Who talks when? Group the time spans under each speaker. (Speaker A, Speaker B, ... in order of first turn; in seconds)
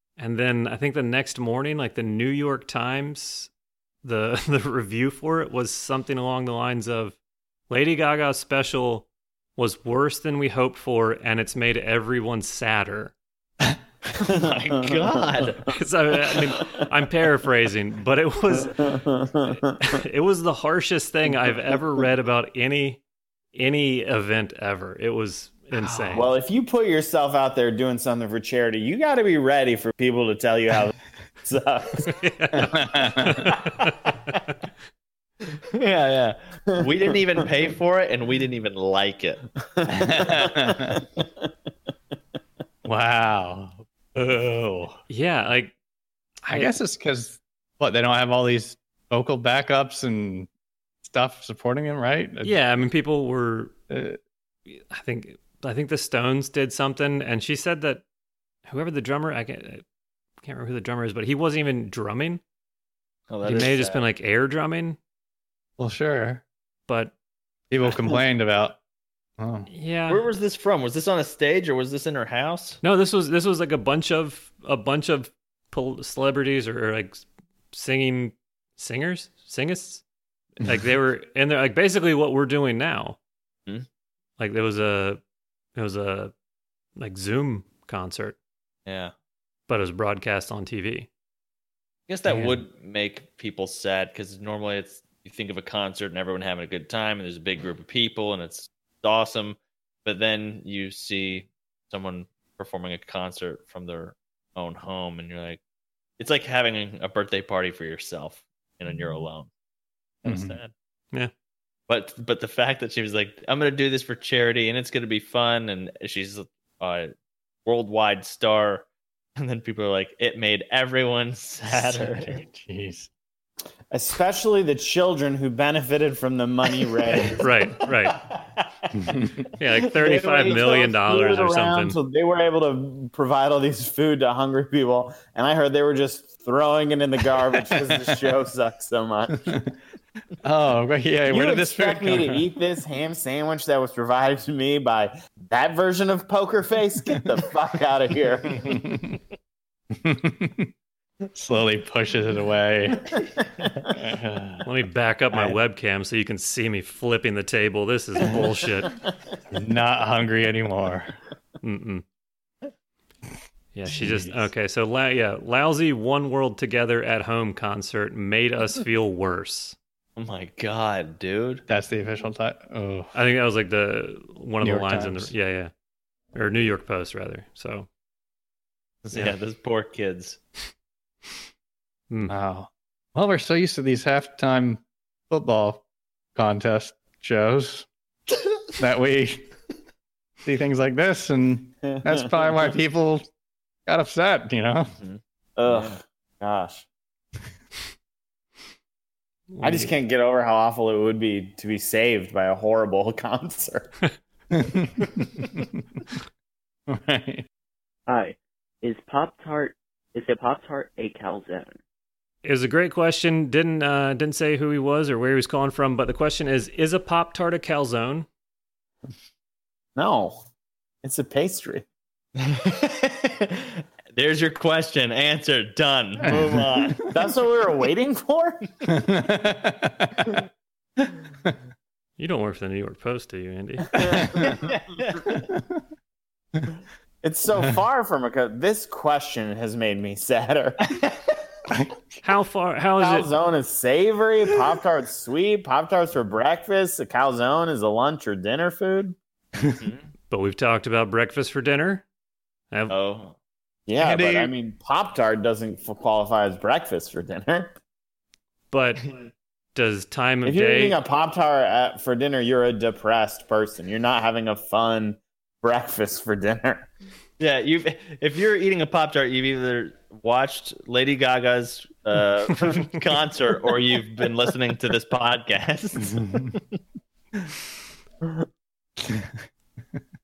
Speaker A: 0.2-3.5, 4.0-7.2, 7.7-13.1, 15.7-18.9, 19.8-23.0, 23.5-26.3, 32.0-34.5, 45.1-45.7, 46.4-46.7, 52.4-53.7, 54.7-58.0, 58.6-59.8, 60.4-62.4, 63.4-65.0, 66.9-67.1, 69.7-70.2, 72.8-80.0, 80.6-83.2, 84.4-85.2, 85.7-86.3, 87.0-88.3, 89.7-91.1, 92.3-92.6, 127.4-128.2, 129.6-132.0, 154.6-159.0, 161.6-162.0, 163.7-169.8, 173.1-175.7, 176.3-177.9, 182.1-182.3, 199.5-199.9, 212.4-218.2, 232.2-233.9, 242.2-243.3, 250.3-252.0, 258.7-259.0, 259.7-261.0
Speaker B: 14.1-15.8, 35.7-39.5, 63.3-64.0, 70.1-72.8, 88.8-89.1, 92.1-105.6, 106.2-109.5, 110.2-110.7, 111.9-117.1, 117.6-118.8, 119.4-122.4, 128.3-128.6, 130.0-130.8, 170.2-171.6, 179.0-180.4, 195.0-196.0, 222.4-227.1, 234.5-235.4, 249.7-250.1, 252.9-253.3, 267.4-276.6
Speaker C: 14.4-15.2, 18.6-19.8, 26.1-32.1, 39.8-41.4, 123.9-127.5, 130.0-139.5, 141.2-148.8, 191.9-192.5, 195.6-196.8, 199.6-203.9, 219.9-220.4, 221.0-221.8, 227.1-228.7, 233.9-234.8, 237.2-241.0, 243.0-249.1, 253.9-257.8, 260.4-266.9
Speaker D: 25.7-26.2, 32.8-33.5, 39.9-41.0, 42.8-45.0, 46.5-50.5, 51.0-52.6, 53.9-54.2, 65.8-66.4, 67.7-68.8, 69.4-69.7, 110.2-110.6, 122.2-123.1, 128.9-129.4, 137.9-138.1, 140.4-142.4, 148.6-149.1, 149.9-150.7, 151.3-153.2, 153.9-154.7, 159.5-161.2, 163.9-164.5, 171.7-173.1, 174.6-175.3, 182.3-185.8, 186.3-187.9, 188.8-189.5, 190.4-193.3, 193.8-194.9, 204.5-205.3, 206.9-207.4, 226.2-227.1, 228.9-230.3, 233.9-234.6, 241.7-242.2, 254.0-254.5, 276.2-276.5, 279.0-279.3
Speaker E: 208.1-211.8